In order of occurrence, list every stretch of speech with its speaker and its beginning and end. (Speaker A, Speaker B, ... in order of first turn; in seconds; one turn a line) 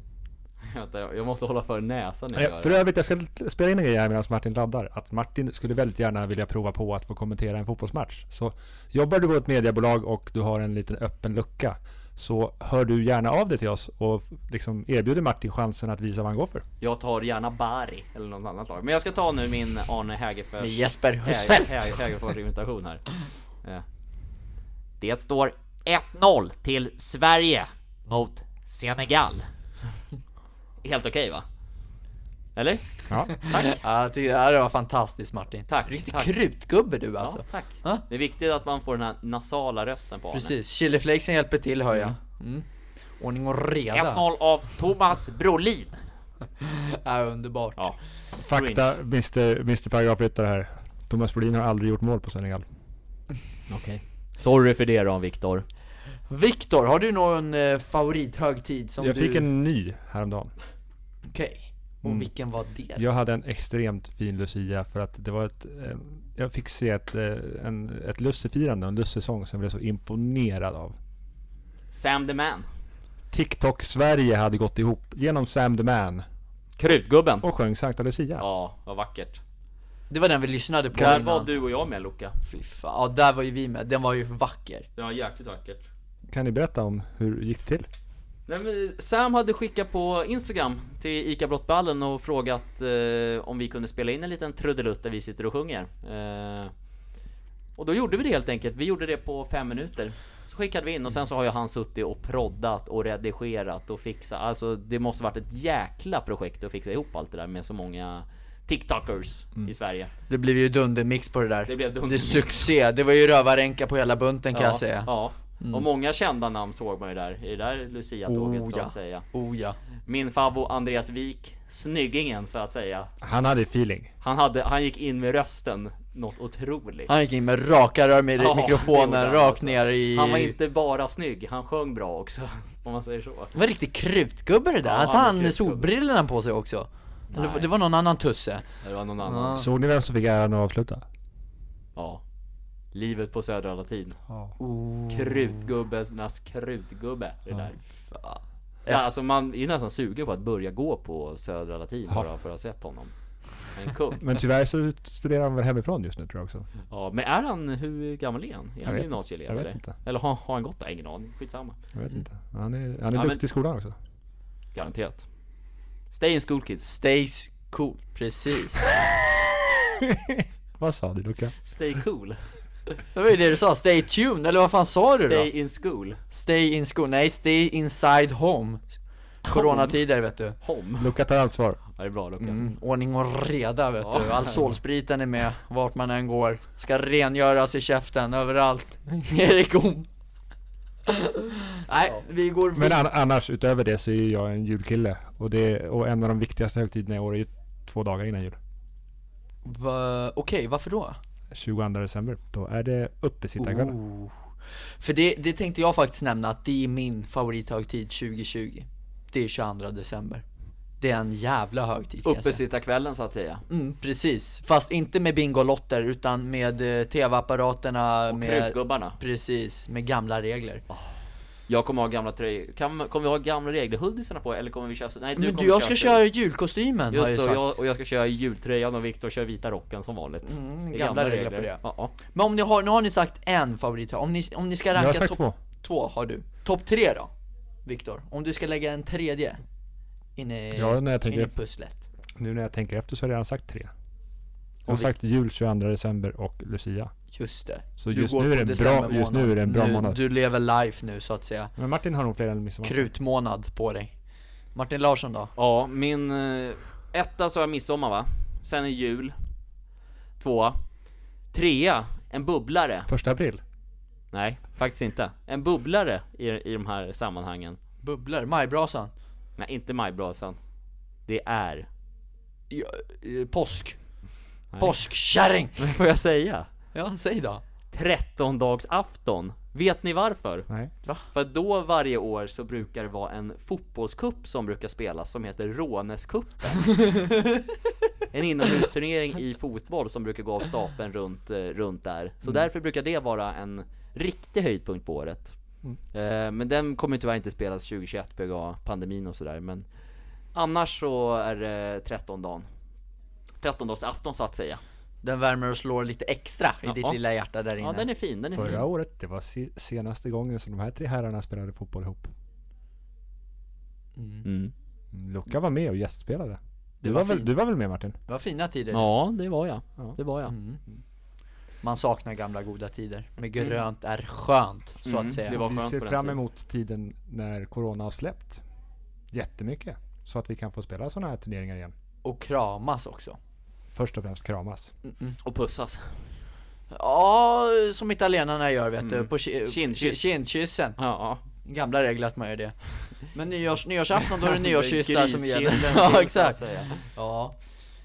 Speaker A: 0.6-2.8
Speaker B: 2.3-16.6
Speaker A: 16.8-23.0
Speaker C: 20.6-22.1
Speaker A: 25.0-29.4
Speaker A: 30.8-31.4
Speaker A: 32.5-33.8
Speaker C: 33.4-38.0
Speaker A: 35.7-36.3
Speaker A: 37.2-40.5
Speaker C: 40.3-42.6
Speaker C: 43.2-44.2
Speaker A: 43.9-46.0
Speaker C: 46.6-47.8
Speaker B: 48.4-52.7
Speaker A: 48.5-48.9
Speaker A: 53.7-55.6
Speaker C: 56.3-59.4
Speaker B: 59.0-60.5
Speaker C: 61.3-63.0
Speaker B: 63.0-71.0
Speaker A: 71.9-72.7
Speaker B: 73.3-76.2
Speaker A: 76.8-77.5
Speaker B: 77.4-78.4
Speaker A: 78.4-79.4
Speaker C: 80.1-81.5
Speaker A: 80.9-82.3
Speaker C: 82.4-84.9
Speaker A: 85.0-85.8
Speaker B: 86.3-87.9
Speaker A: 88.5-96.7
Speaker A: 97.8-110.1
Speaker C: 110.3-115.8
Speaker A: 111.7-112.4
Speaker A: 114.5-119.2
Speaker C: 118.2-119.8
Speaker A: 120.0-123.1
Speaker B: 123.2-124.1
Speaker A: 124.2-127.1
Speaker C: 127.1-130.5
Speaker A: 128.4-133.5
Speaker C: 133.5-138.6
Speaker A: 134.8-135.9
Speaker A: 137.3-137.7
Speaker A: 138.8-139.6
Speaker C: 139.2-139.7
Speaker B: 139.5-141.0
Speaker A: 141.9-142.2
Speaker A: 142.9-144.2
Speaker B: 144.3-144.5
Speaker C: 144.6-145.5
Speaker A: 145.1-147.8
Speaker C: 148.1-149.1
Speaker A: 148.8-153.1
Speaker A: 153.7-154.2
Speaker B: 154.2-156.7
Speaker A: 156.9-161.8
Speaker B: 158.8-159.9
Speaker B: 161.9-163.9
Speaker A: 163.1-163.4
Speaker A: 164.7-165.2
Speaker A: 166.1-166.8
Speaker C: 166.8-169.0
Speaker B: 170.0-171.6
Speaker A: 171.6-172.4
Speaker C: 173.1-175.5
Speaker A: 175.1-176.2
Speaker C: 176.3-178.8
Speaker C: 179.4-180.6
Speaker A: 179.4-179.9
Speaker A: 180.6-181.1
Speaker B: 181.0-181.8
Speaker A: 181.9-182.6
Speaker C: 182.4-190.1
Speaker A: 184.0-184.6
Speaker C: 191.1-193.0
Speaker B: 192.7-198.6
Speaker C: 199.6-201.2
Speaker B: 201.5-203.9
Speaker C: 203.6-204.3
Speaker C: 205.0-210.4
Speaker C: 211.0-212.6
Speaker A: 212.2-213.6
Speaker C: 213.7-220.8
Speaker A: 218.3-219.2
Speaker A: 221.7-226.2
Speaker C: 225.4-227.6
Speaker A: 227.1-232.1
Speaker C: 230.5-237.3
Speaker B: 234.9-235.6
Speaker C: 237.8-239.6
Speaker C: 240.3-242.0
Speaker B: 240.7-241.5
Speaker B: 242.4-243.9
Speaker B: 244.8-247.1
Speaker C: 247.3-251.7
Speaker B: 248.0-250.2
Speaker B: 251.8-253.1
Speaker C: 252.8-254.1
Speaker C: 254.7-255.5
Speaker A: 255.6-259.4
Speaker A: 260.4-260.8
Speaker A: 261.5-263.1
Speaker B: 263.1-263.6
Speaker A: 264.3-267.8
Speaker C: 268.0-269.1
Speaker A: 269.6-270.6
Speaker A: 271.2-271.9
Speaker C: 272.7-274.0
Speaker A: 274.7-275.0
Speaker C: 274.8-275.8
Speaker A: 275.8-276.7
Speaker C: 276.9-277.6
Speaker A: 277.9-280.7
Speaker A: 281.3-286.9
Speaker C: 287.0-287.6
Speaker A: 288.3-295.6
Speaker A: 296.1-299.8
Speaker A: 300.5-302.7
Speaker A: 303.6-304.8
Speaker C: 305.2-308.1
Speaker A: 306.9-307.2
Speaker A: 307.8-308.8
Speaker B: 308.5-312.3
Speaker C: 314.1-314.4
Speaker A: 314.4-314.7
Speaker B: 315.1-318.2
Speaker C: 317.0-317.5
Speaker C: 318.3-319.1
Speaker A: 318.9-320.5
Speaker C: 320.5-320.8
Speaker C: 321.8-325.6
Speaker A: 325.0-326.4
Speaker B: 325.5-328.6
Speaker B: 329.3-331.9
Speaker C: 332.2-333.4
Speaker B: 333.9-334.9
Speaker C: 335.0-335.4
Speaker A: 335.4-336.1
Speaker C: 336.9-341.0
Speaker A: 339.0-340.3
Speaker A: 341.0-341.4
Speaker C: 341.6-347.6
Speaker A: 344.4-347.0